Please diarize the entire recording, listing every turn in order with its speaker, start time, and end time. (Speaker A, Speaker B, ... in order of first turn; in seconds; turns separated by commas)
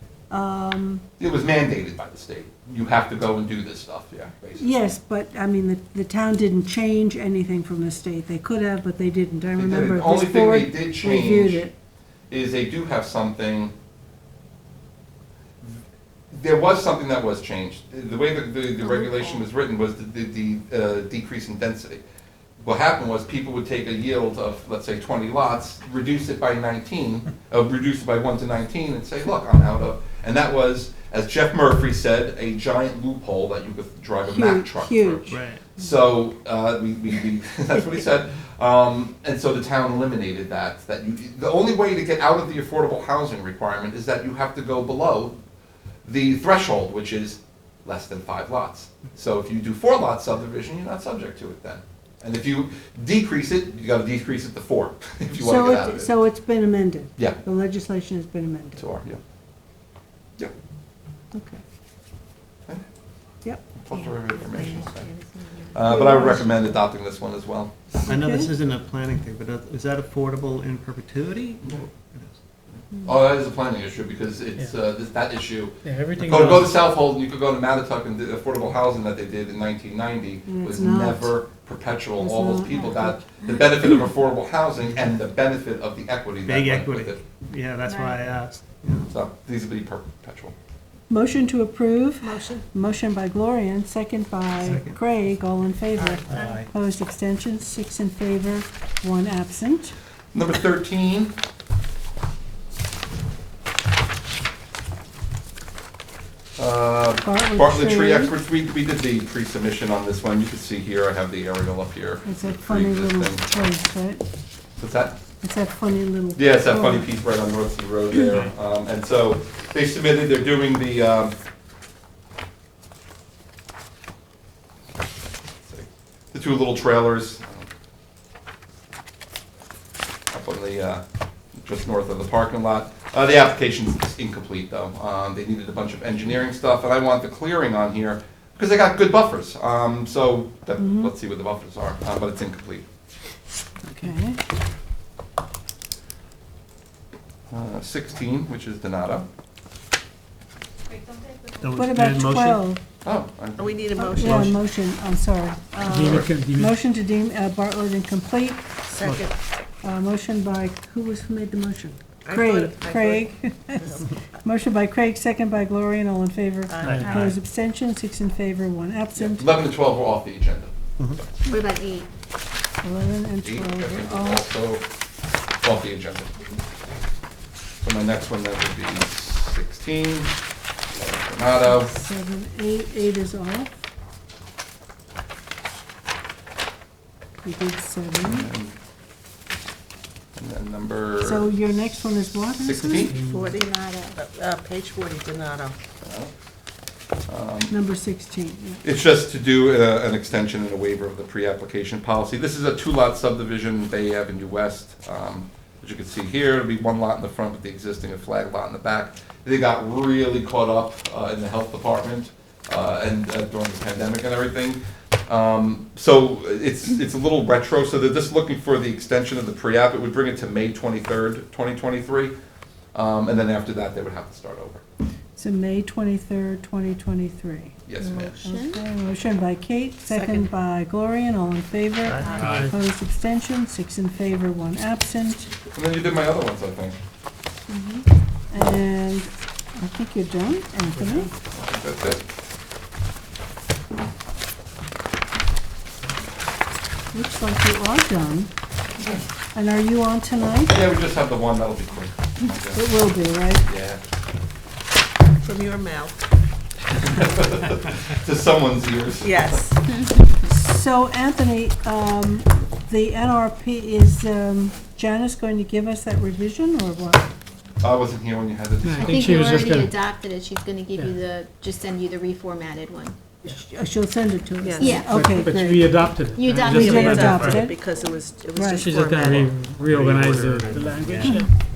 Speaker A: 0.3-1.0, Speaker B: 1.2-4.7, Speaker A: 4.6-11.7, Speaker B: 9.6-11.7, Speaker B: 12.3-13.7, Speaker B: 16.3-22.0, Speaker B: 22.6-45.4, Speaker A: 34.3-35.3, Speaker C: 35.3-35.6, Speaker B: 46.0-56.1, Speaker A: 55.4-58.9, Speaker B: 58.8-59.2, Speaker A: 61.3-61.6, Speaker B: 63.8-65.1, Speaker D: 63.9-66.3, Speaker B: 65.7-67.9, Speaker A: 65.8-66.7, Speaker C: 68.0-72.3, Speaker A: 68.1-68.5, Speaker B: 73.0-87.2, Speaker E: 75.8-76.8, Speaker A: 80.5-81.4, Speaker A: 82.2-83.2, Speaker C: 84.8-85.2, Speaker C: 86.4-89.1, Speaker D: 87.9-88.2, Speaker B: 89.1-90.5, Speaker A: 91.1-100.0, Speaker F: 92.2-92.6, Speaker C: 94.6-95.0, Speaker F: 96.0-96.5, Speaker C: 96.3-96.7, Speaker B: 100.3-101.4, Speaker B: 106.6-113.5, Speaker A: 107.2-108.3, Speaker A: 112.2-114.2, Speaker B: 114.8-115.2, Speaker A: 115.4-117.1, Speaker B: 116.4-121.3, Speaker B: 125.6-127.7, Speaker B: 130.3-131.0, Speaker B: 131.6-142.8, Speaker A: 140.8-141.1, Speaker A: 143.8-144.4, Speaker B: 147.5-149.3, Speaker C: 151.6-152.7, Speaker A: 151.7-152.8, Speaker B: 153.0-154.5, Speaker F: 153.6-154.6, Speaker A: 154.0-158.8, Speaker E: 155.8-156.8, Speaker B: 156.0-156.3, Speaker F: 158.9-159.3, Speaker A: 159.8-169.5, Speaker F: 162.2-164.1, Speaker F: 166.7-167.3, Speaker C: 166.8-167.2, Speaker E: 166.8-167.3, Speaker B: 169.2-170.7, Speaker D: 171.5-172.1, Speaker A: 172.8-174.4, Speaker B: 173.4-174.8, Speaker B: 175.6-176.4, Speaker B: 177.8-180.3, Speaker B: 180.9-181.9, Speaker A: 181.6-183.8, Speaker A: 187.4-188.5, Speaker B: 188.2-188.7, Speaker B: 190.4-191.5, Speaker A: 191.2-193.1, Speaker B: 192.6-193.2, Speaker E: 193.1-193.5, Speaker F: 193.2-195.8, Speaker D: 193.4-194.2, Speaker B: 196.0-196.3, Speaker B: 197.3-197.8, Speaker A: 197.7-198.8, Speaker B: 198.8-222.3, Speaker B: 222.9-224.8, Speaker A: 225.4-227.8, Speaker B: 227.9-228.4, Speaker D: 228.0-228.8, Speaker A: 228.4-235.5, Speaker F: 230.1-230.5, Speaker C: 232.1-232.6, Speaker E: 232.3-232.7, Speaker B: 235.7-237.0, Speaker D: 237.7-238.0, Speaker A: 238.5-241.3, Speaker B: 241.5-242.2, Speaker A: 247.1-248.5, Speaker A: 249.5-250.8, Speaker B: 250.7-253.0, Speaker A: 252.7-253.7, Speaker B: 253.5-254.0, Speaker F: 255.4-256.2, Speaker B: 256.9-259.6, Speaker F: 259.2-259.8, Speaker D: 259.9-260.2, Speaker A: 260.5-267.3, Speaker B: 267.8-269.7, Speaker E: 268.8-270.0, Speaker D: 269.0-273.2, Speaker A: 273.4-276.0, Speaker F: 274.6-275.0, Speaker D: 274.8-275.2, Speaker E: 275.1-277.6, Speaker D: 276.4-277.2, Speaker F: 276.7-279.7, Speaker A: 276.7-277.8, Speaker C: 277.3-277.6, Speaker A: 278.5-278.9, Speaker E: 278.7-281.5, Speaker C: 279.9-281.5, Speaker A: 281.2-281.5